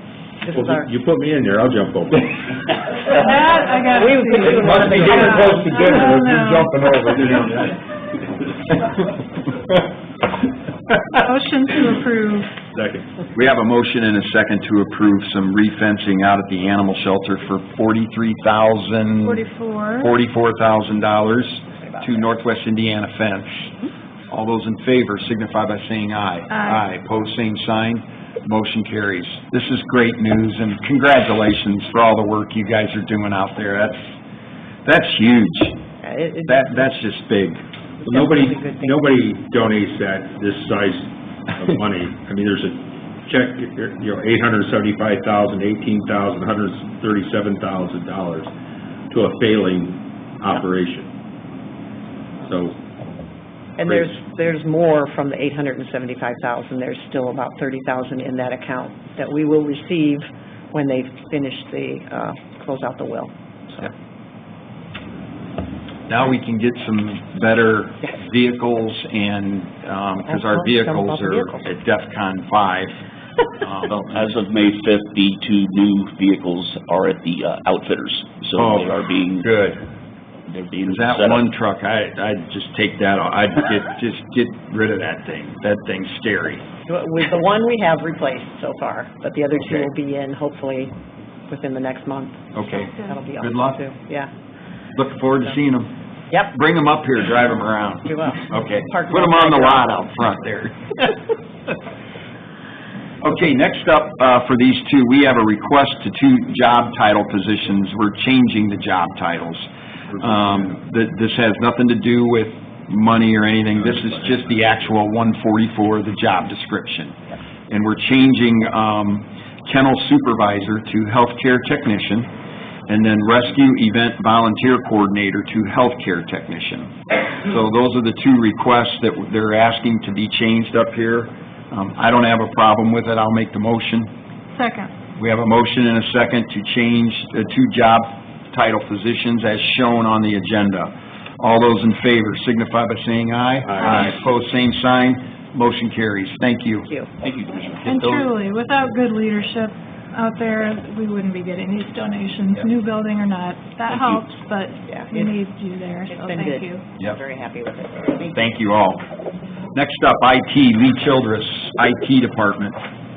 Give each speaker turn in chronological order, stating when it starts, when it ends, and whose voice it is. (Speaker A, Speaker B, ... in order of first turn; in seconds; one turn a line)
Speaker A: 0.5-0.9
Speaker B: 0.5-2.5
Speaker A: 3.0-5.9
Speaker C: 3.1-6.9
Speaker B: 4.5-7.8
Speaker D: 5.4-7.5
Speaker C: 11.1-12.5
Speaker B: 12.7-13.1
Speaker D: 13.3-19.4
Speaker C: 19.2-20.1
Speaker D: 20.0-23.7
Speaker D: 24.3-34.2
Speaker C: 26.5-26.8
Speaker D: 34.8-35.8
Speaker A: 36.0-36.9
Speaker D: 36.5-37.6
Speaker A: 38.1-39.0
Speaker B: 38.1-48.5
Speaker B: 49.1-51.1
Speaker B: 52.4-52.8
Speaker A: 53.8-63.9
Speaker D: 66.1-73.0
Speaker A: 70.2-71.7
Speaker D: 73.6-74.2
Speaker E: 74.0-79.5
Speaker D: 78.6-79.9
Speaker E: 80.5-81.5
Speaker D: 80.9-86.7
Speaker A: 86.9-91.0
Speaker D: 89.6-89.9
Speaker A: 91.5-94.3
Speaker D: 92.5-93.8
Speaker C: 92.7-93.2
Speaker D: 95.0-101.1
Speaker A: 98.1-100.0
Speaker D: 103.2-117.2
Speaker B: 113.7-114.9
Speaker D: 117.7-122.3
Speaker D: 122.9-134.1
Speaker C: 134.6-134.9
Speaker D: 135.2-146.9
Speaker B: 143.7-144.1
Speaker C: 143.8-144.1
Speaker A: 146.9-147.1
Speaker E: 147.2-148.3
Speaker C: 147.8-156.8
Speaker E: 153.9-154.2
Speaker A: 154.9-155.3
Speaker A: 156.1-158.4
Speaker D: 158.3-159.1
Speaker D: 159.7-162.8